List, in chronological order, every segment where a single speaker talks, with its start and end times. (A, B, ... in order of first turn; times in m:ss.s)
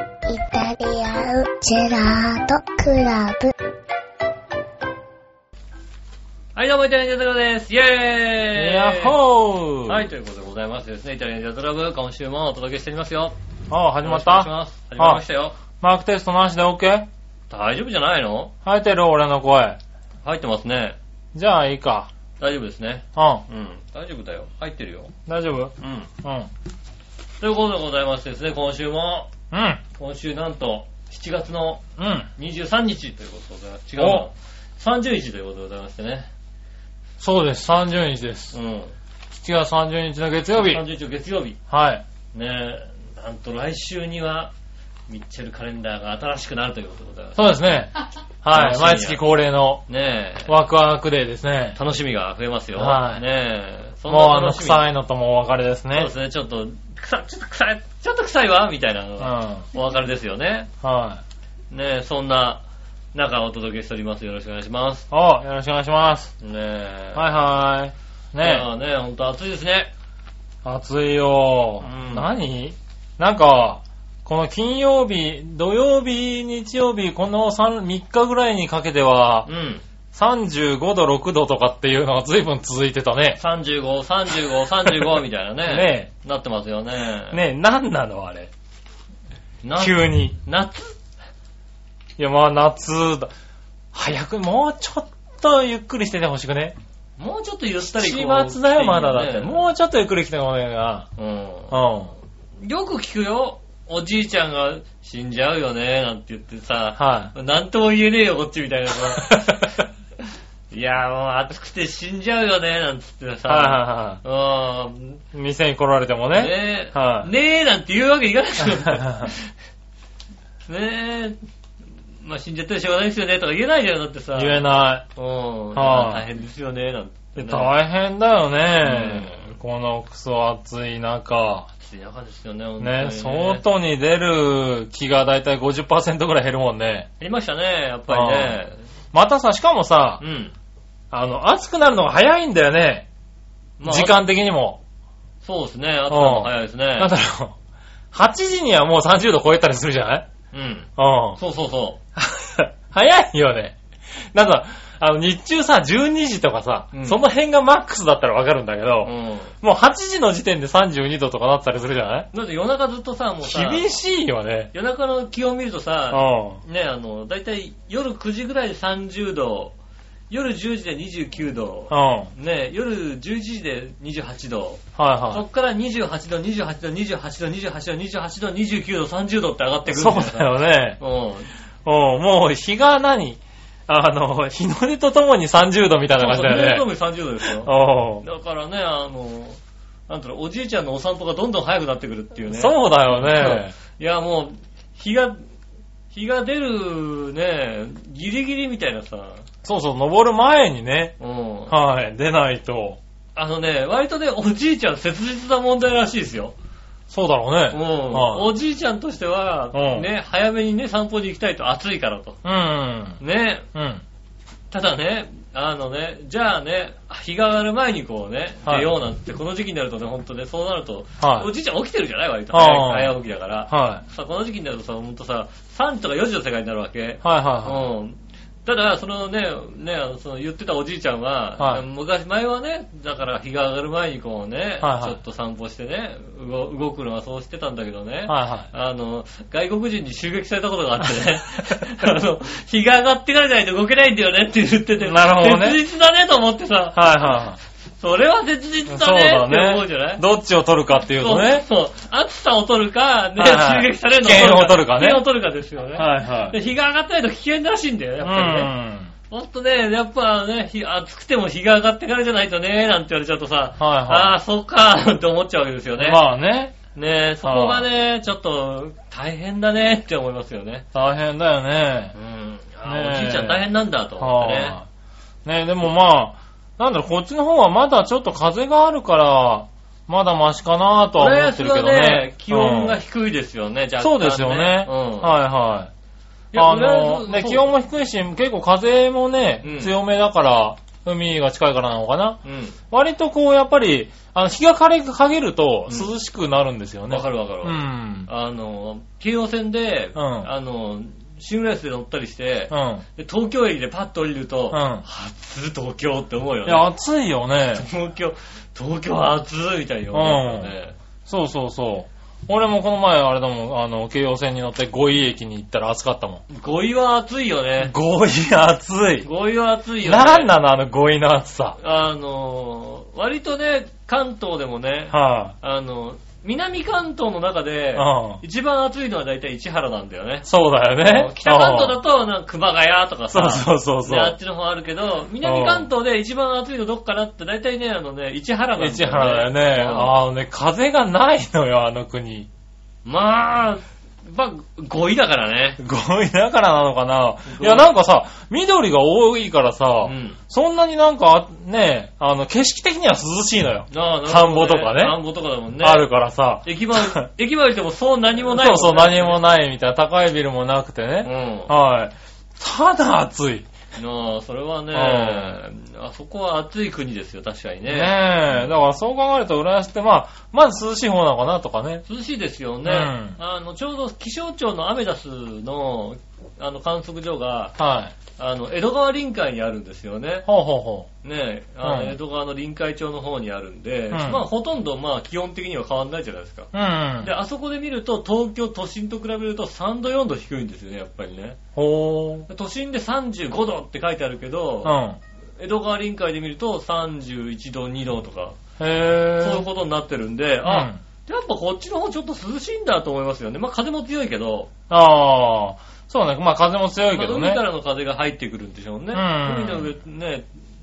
0:00.3-0:03.5 A
0:06.6-0:09.2 B
0:08.6-0:10.1 C
0:09.8-0:13.4 B
0:13.7-0:15.2 C
0:14.0-0:15.6 B
0:15.8-0:17.1 C
0:17.5-0:18.5 B
0:18.6-0:19.8 C
0:20.2-0:21.0 B
0:21.3-0:22.1 C
0:22.4-0:25.1 B
0:23.2-0:23.4 C
0:25.3-0:26.5 C
0:25.8-0:26.1 B
0:27.4-0:29.3 B
0:29.5-0:29.8 C
0:29.9-0:31.8 B
0:32.0-0:32.3 C
0:32.4-0:36.3 B
0:34.0-0:34.3 C
0:37.2-0:38.6 C
0:38.5-0:38.9 B
0:39.3-0:40.8 C
0:40.6-0:41.6 B
0:41.7-0:42.0 C
0:42.3-0:44.5 B
0:45.1-0:47.4 B
0:47.4-0:47.9 C
0:48.4-0:49.8 C
0:48.5-0:49.2 B
0:49.9-0:50.5 B
0:50.5-0:51.8 C
0:51.7-0:54.9 B
0:52.8-0:53.2 C
0:54.1-0:56.1 C
0:55.9-1:00.7 B
0:59.2-0:59.6 C
1:00.8-1:01.2 C
1:01.7-1:02.6 B
1:03.1-1:05.0 B
1:05.1-1:06.3 C
1:06.4-1:07.3 B
1:07.1-1:08.6 C
1:08.4-1:09.9 B
1:10.6-1:19.5 C
1:11.8-1:12.3 B
1:19.4-1:19.8 B
1:20.1-1:23.4 C
1:23.4-1:27.4 B
1:25.6-1:26.1 C
1:27.3-1:28.5 C
1:29.6-1:31.0 B
1:29.8-1:30.4 C
1:32.2-1:33.3 C
1:33.9-1:36.8 C
1:37.2-1:39.7 B
1:37.8-1:41.1 C
1:41.2-1:41.7 B
1:41.7-1:42.1 C
1:42.6-1:49.7 B
1:47.0-1:47.3 C
1:49.1-1:49.8 C
1:50.7-1:55.2 B
1:53.5-1:54.2 C
1:55.3-1:57.3 C
1:56.3-1:59.5 B
1:58.7-1:59.3 C
2:00.6-2:01.4 B
2:02.2-2:04.6 B
2:04.4-2:05.0 C
2:05.1-2:07.7 B
2:05.7-2:06.2 C
2:07.4-2:11.7 C
2:08.8-2:09.5 B
2:11.8-2:13.6 B
2:12.8-2:17.1 C
2:17.2-2:18.8 B
2:18.1-2:18.6 C
2:19.1-2:20.2 C
2:20.2-2:20.5 B
2:21.1-2:23.0 C
2:23.8-2:24.2 B
2:23.8-2:24.8 C
2:25.4-2:27.1 B
2:26.1-2:27.5 C
2:28.1-2:30.2 C
2:30.5-2:32.0 B
2:31.0-2:31.4 C
2:32.2-2:33.8 C
2:34.3-2:42.3 C
2:36.9-2:37.2 B
2:39.0-2:39.5 B
2:42.3-2:43.9 B
2:43.4-2:44.7 C
2:44.7-2:49.7 B
2:46.1-2:46.6 C
2:50.3-3:01.5 B
2:51.9-2:52.3 C
2:55.0-2:55.4 C
2:59.9-3:01.0 C
3:01.8-3:06.9 C
3:06.2-3:15.4 B
3:07.4-3:08.2 C
3:12.5-3:13.7 C
3:16.1-3:19.4 B
3:19.6-3:21.1 C
3:21.2-3:21.7 B
3:21.7-3:23.0 C
3:23.4-3:26.5 B
3:27.1-3:28.5 C
3:27.7-3:32.4 B
3:29.7-3:30.1 C
3:32.4-3:33.2 C
3:33.2-3:33.7 B
3:33.7-3:34.0 C
3:34.7-4:07.2 B
3:38.6-3:38.9 C
3:41.2-3:41.5 C
3:42.5-3:43.2 C
3:43.7-3:44.0 C
3:47.2-3:47.8 C
3:54.8-3:55.2 C
3:58.3-3:58.7 C
4:05.0-4:05.8 C
4:06.9-4:07.6 C
4:08.0-4:10.2 B
4:08.9-4:11.6 C
4:11.2-4:18.7 B
4:13.4-4:15.2 C
4:16.0-4:16.6 C
4:18.2-4:19.1 C
4:19.3-4:26.2 B
4:23.8-4:24.4 C
4:26.0-4:26.8 C
4:26.9-4:30.8 B
4:27.4-4:27.8 C
4:30.9-4:32.1 C
4:32.1-4:34.8 B
4:32.8-4:34.8 C
4:35.4-4:43.0 C
4:41.2-4:45.4 B
4:44.0-4:45.9 C
4:46.5-4:47.7 B
4:46.5-4:52.4 C
4:49.6-4:49.9 B
4:52.4-4:52.7 B
4:52.9-4:58.3 C
4:57.1-5:06.8 B
5:00.1-5:00.5 C
5:02.7-5:03.0 C
5:04.7-5:05.0 C
5:06.6-5:07.8 C
5:07.7-5:11.0 B
5:10.1-5:10.7 C
5:11.3-5:16.4 C
5:16.5-5:17.9 B
5:17.8-5:19.3 C
5:19.2-5:20.5 B
5:20.0-5:21.8 C
5:21.8-5:30.5 B
5:25.1-5:25.5 C
5:27.9-5:28.4 C
5:30.4-5:32.0 C
5:31.0-5:40.2 B
5:33.3-5:34.4 C
5:35.4-5:35.9 C
5:38.8-5:42.5 C
5:43.0-5:45.8 B
5:45.8-5:55.2 C
5:47.4-5:47.9 B
5:50.0-5:50.4 B
5:53.9-5:56.1 B
5:55.8-5:57.3 C
5:56.6-5:59.4 B
5:58.4-6:03.7 C
6:01.2-6:01.7 B
6:04.0-6:08.7 B
6:04.9-6:05.6 C
6:07.9-6:12.0 C
6:12.1-6:17.8 B
6:12.8-6:13.4 C
6:17.8-6:18.1 C
6:18.4-6:20.5 B
6:20.5-6:21.1 C
6:21.2-6:26.7 B
6:21.8-6:22.2 C
6:24.1-6:24.4 C
6:26.7-6:27.3 C
6:27.2-6:31.6 B
6:31.7-6:32.5 C
6:32.5-6:35.0 B
6:34.8-6:35.2 C
6:35.6-6:38.6 B
6:38.8-6:39.7 C
6:39.4-6:44.7 B
6:40.6-6:41.0 C
6:44.9-6:47.6 C
6:47.1-6:50.4 B
6:49.1-6:49.9 C